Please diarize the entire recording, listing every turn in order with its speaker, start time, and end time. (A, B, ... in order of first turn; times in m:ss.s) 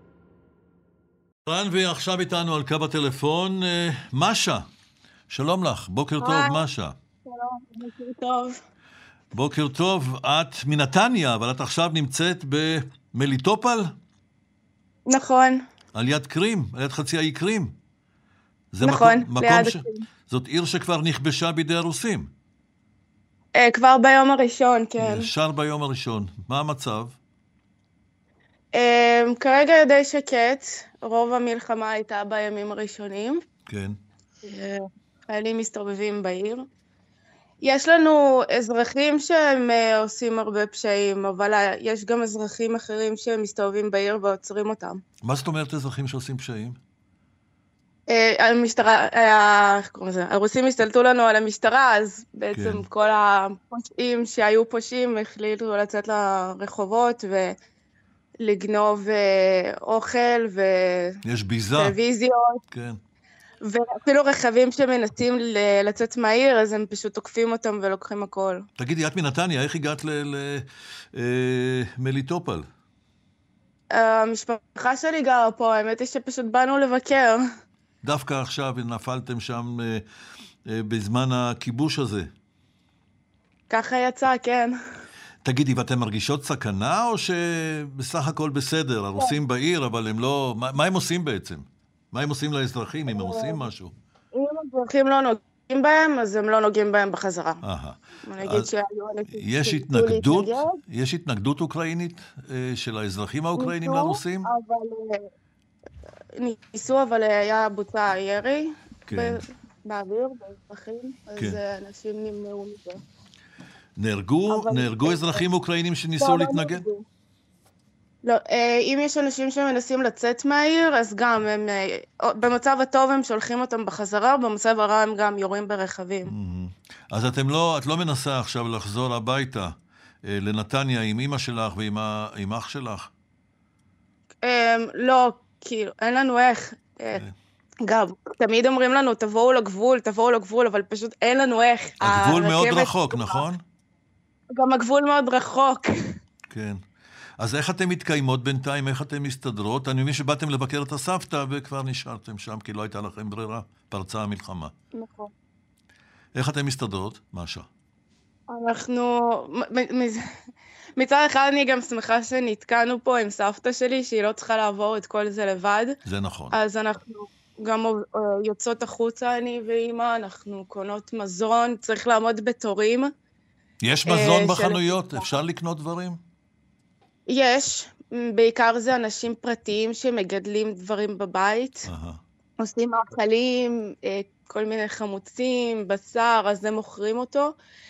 0:01.5-0:04.6 A
0:05.3-0:07.0 A
0:06.2-0:06.6 B
0:07.2-0:08.6 B
0:09.3-0:13.9 A
0:15.1-0:15.6 B
0:15.9-0:17.8 A
0:18.7-0:22.3 A
0:18.8-0:20.0 B
0:23.6-0:25.3 B
0:25.0-0:27.1 A
0:28.7-0:33.4 B
0:33.7-0:34.0 A
0:34.4-0:36.6 B
0:37.6-0:45.0 B
0:45.2-0:46.8 A
0:48.1-0:57.5 B
0:52.5-0:52.8 A
0:58.4-1:01.2 B
1:01.2-1:02.0 A
1:01.8-1:02.6 B
1:02.7-1:03.0 A
1:03.6-1:08.7 B
1:08.8-1:12.7 A
1:13.9-1:17.4 B
1:18.0-1:20.0 A
1:20.7-1:22.3 A
1:23.7-1:24.8 B
1:25.4-1:33.9 A
1:33.0-1:33.7 B
1:34.3-1:37.6 B
1:37.6-1:38.7 A
1:38.2-1:40.8 B
1:39.3-1:44.5 A
1:43.6-1:45.2 B
1:46.4-1:53.0 B
1:49.1-1:49.4 A
1:54.0-1:56.8 A
1:54.5-1:55.4 B
1:56.2-1:57.0 B
1:58.2-2:06.3 B
2:06.3-2:09.7 A
2:10.3-2:13.1 A
2:14.4-2:17.2 B
2:17.8-2:23.4 B
2:22.0-2:23.6 A
2:24.5-2:26.1 B
2:26.5-2:26.8 A
2:27.4-2:34.7 A
2:34.9-2:35.3 B
2:36.4-2:37.7 A
2:38.5-2:40.2 B
2:41.0-2:46.0 B
2:46.0-2:46.6 A
2:46.5-2:53.1 B
2:53.8-2:56.2 A
2:54.1-2:55.4 B
2:57.3-3:01.9 B
3:01.9-3:02.2 A
3:02.6-3:07.6 B